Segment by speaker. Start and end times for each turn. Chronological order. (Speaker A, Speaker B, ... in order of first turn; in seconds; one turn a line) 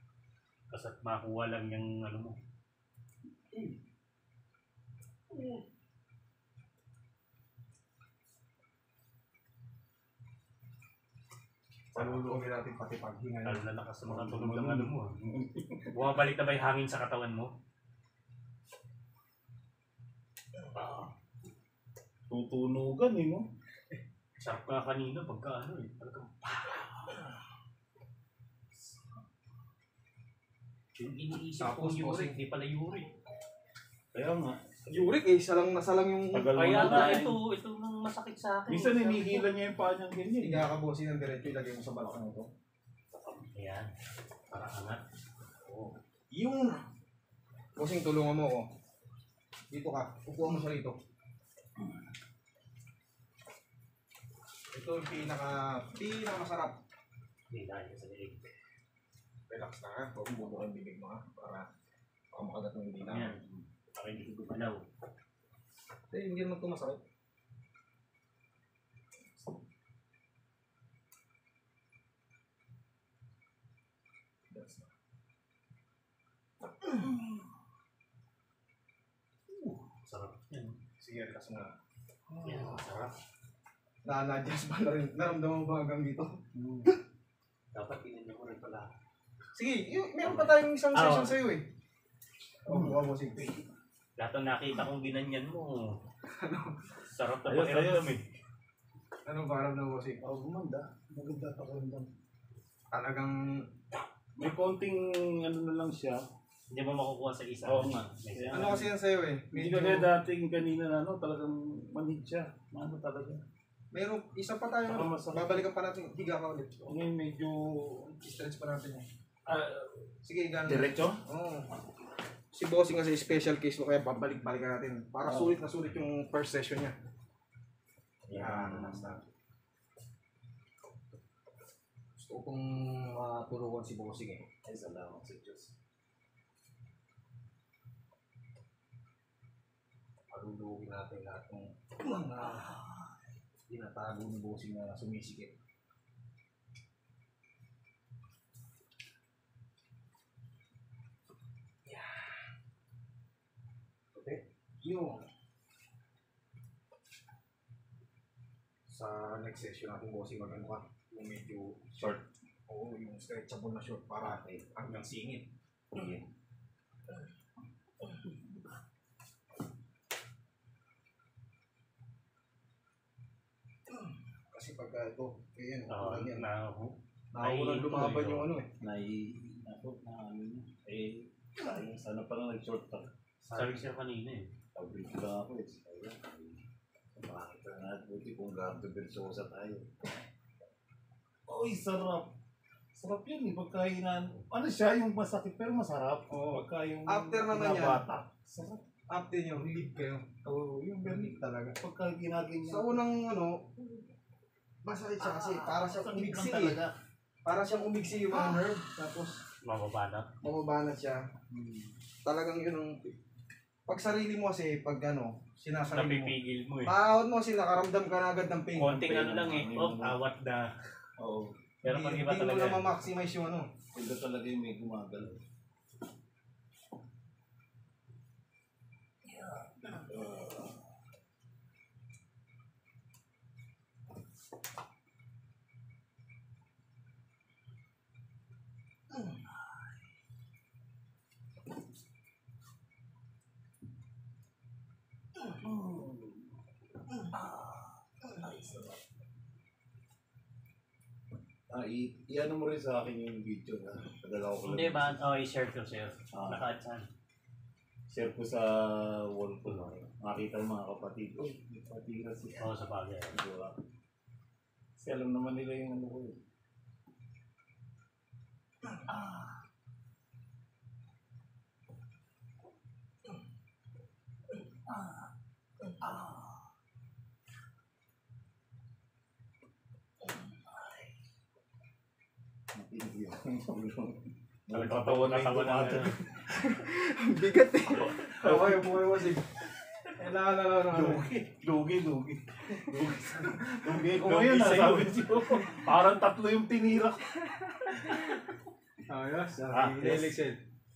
Speaker A: 0.7-2.4
Speaker B: 5.3-5.6
Speaker B: 11.9-14.9
Speaker A: 11.9-12.2
Speaker A: 13.4-15.1
Speaker C: 15.2-15.9
Speaker A: 15.9-17.5
Speaker A: 20.8-21.1
Speaker C: 22.3-23.4
Speaker A: 24.4-27.2
Speaker A: 31.0-33.1
Speaker B: 31.6-32.4
Speaker C: 34.1-34.8
Speaker B: 34.9-37.3
Speaker C: 36.3-37.4
Speaker A: 36.5-39.5
Speaker C: 38.7-40.7
Speaker B: 40.4-42.5
Speaker A: 43.1-43.9
Speaker A: 44.5-45.0
Speaker A: 45.7-45.9
Speaker B: 46.3-46.9
Speaker B: 47.8-48.7
Speaker B: 49.7-51.0
Speaker B: 54.7-56.8
Speaker A: 57.5-58.4
Speaker B: 59.5-61.7
Speaker B: 62.3-63.4
Speaker A: 63.0-64.8
Speaker B: 66.1-67.0
Speaker B: 74.5-74.9
Speaker A: 79.6-80.8
Speaker B: 81.0-81.7
Speaker C: 82.3-82.9
Speaker A: 82.4-83.1
Speaker B: 84.0-87.0
Speaker C: 86.5-86.9
Speaker A: 87.7-88.9
Speaker B: 89.5-91.7
Speaker A: 90.2-91.4
Speaker B: 92.7-93.5
Speaker C: 92.7-93.0
Speaker A: 94.2-96.0
Speaker B: 96.3-96.8
Speaker A: 97.1-98.2
Speaker C: 97.5-98.2
Speaker B: 99.3-100.2
Speaker C: 100.2-102.1
Speaker B: 102.9-103.7
Speaker C: 104.4-106.2
Speaker A: 106.7-108.8
Speaker C: 107.7-108.9
Speaker B: 108.5-110.1
Speaker C: 109.5-113.4
Speaker B: 113.9-116.8
Speaker C: 114.9-115.7
Speaker C: 116.8-118.1
Speaker B: 118.2-119.1
Speaker C: 119.5-120.1
Speaker B: 120.2-121.7
Speaker C: 120.7-121.2
Speaker B: 122.5-127.0
Speaker C: 125.3-125.6
Speaker C: 128.3-129.2
Speaker B: 128.3-129.2
Speaker B: 132.2-134.4
Speaker C: 134.7-135.7
Speaker B: 140.3-142.8
Speaker B: 143.7-145.6
Speaker B: 151.8-152.4
Speaker B: 154.1-155.2
Speaker B: 158.9-162.0
Speaker C: 161.9-162.2
Speaker B: 162.7-165.5
Speaker C: 164.2-164.7
Speaker C: 165.9-166.2
Speaker B: 174.5-176.5
Speaker A: 175.9-178.5
Speaker B: 177.3-178.7
Speaker C: 178.8-183.1
Speaker B: 183.4-183.9
Speaker A: 183.5-184.5
Speaker C: 184.7-186.6
Speaker C: 187.2-189.9
Speaker C: 191.5-192.3
Speaker C: 192.9-198.8
Speaker B: 196.3-198.1
Speaker B: 199.1-201.8
Speaker C: 201.1-203.0
Speaker B: 202.7-203.9
Speaker B: 204.8-206.8
Speaker C: 205.2-206.9
Speaker B: 207.4-209.4
Speaker A: 209.6-210.3
Speaker B: 210.4-211.3
Speaker C: 211.5-211.9
Speaker B: 212.2-213.1
Speaker B: 213.9-219.0
Speaker A: 215.9-217.0
Speaker C: 218.8-220.2
Speaker A: 218.8-220.7
Speaker C: 221.2-221.5
Speaker A: 221.8-222.9
Speaker B: 221.8-223.7
Speaker C: 223.9-225.4
Speaker C: 229.3-230.8
Speaker C: 245.5-246.4
Speaker C: 247.3-247.7
Speaker C: 248.3-249.0
Speaker C: 251.7-255.2
Speaker A: 254.6-257.1
Speaker C: 256.3-256.6
Speaker C: 258.1-262.7
Speaker A: 259.6-259.9
Speaker A: 262.6-263.4
Speaker C: 263.3-263.8
Speaker C: 265.0-266.4
Speaker C: 282.8-286.7
Speaker A: 284.7-286.2
Speaker B: 286.5-289.5
Speaker C: 287.9-289.1
Speaker B: 290.1-291.3
Speaker C: 290.9-297.3
Speaker B: 292.9-294.8
Speaker A: 294.1-295.6
Speaker B: 297.4-298.4
Speaker B: 299.1-300.6
Speaker C: 299.7-300.3